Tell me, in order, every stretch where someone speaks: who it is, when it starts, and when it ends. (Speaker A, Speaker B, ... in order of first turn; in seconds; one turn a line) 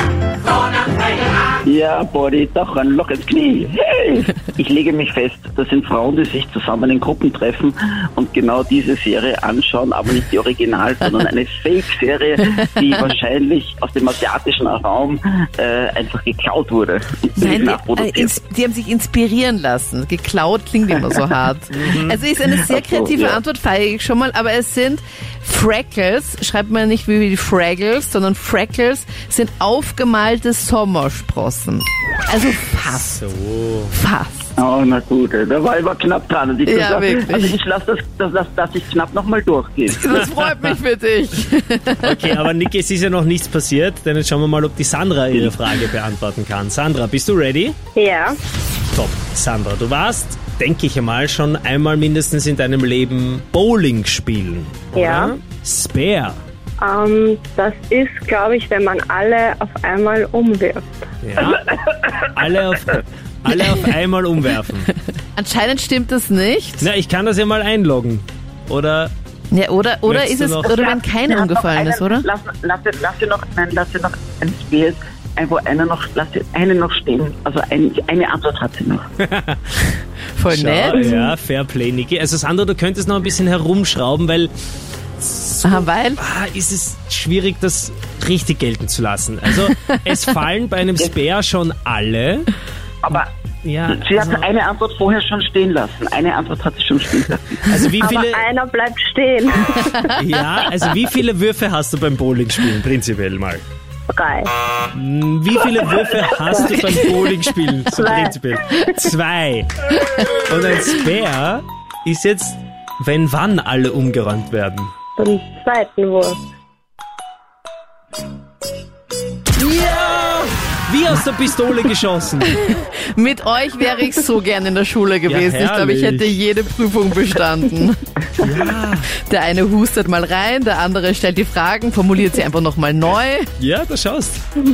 Speaker A: 1.6-18.4
Speaker B: 17.4-33.2
Speaker C: 21.8-22.2
Speaker A: 22.4-23.4
Speaker C: 33.0-33.9
Speaker B: 33.9-34.5
Speaker A: 34.6-40.3
Speaker B: 36.6-37.6
Speaker B: 39.9-42.4
Speaker C: 40.4-40.7
Speaker C: 42.0-47.8
Speaker D: 48.0-48.4
Speaker C: 48.9-56.4
Speaker D: 54.9-55.3
Speaker D: 56.8-60.9
Speaker C: 61.2-61.7
Speaker A: 61.5-62.2
Speaker C: 62.3-64.9
Speaker B: 65.3-66.9
Speaker C: 66.8-69.1
Speaker B: 69.5-72.3
Speaker C: 70.1-70.7
Speaker A: 70.6-79.1
Speaker C: 79.2-79.8
Speaker B: 80.3-81.3
Speaker C: 80.5-84.5
Speaker C: 85.2-92.5
Speaker B: 85.6-86.2
Speaker A: 93.0-93.3
Speaker C: 93.7-94.5
Speaker A: 93.9-97.6
Speaker C: 97.6-98.4
Speaker D: 98.0-100.2
Speaker C: 100.1-103.6
Speaker D: 104.1-104.5
Speaker C: 104.9-114.9
Speaker D: 106.3-107.2
Speaker B: 106.7-107.0
Speaker D: 107.9-109.0
Speaker D: 115.2-116.4
Speaker C: 119.6-122.6
Speaker B: 122.6-128.0
Speaker C: 125.2-126.4
Speaker C: 128.4-129.1
Speaker B: 129.2-133.5
Speaker C: 133.6-134.4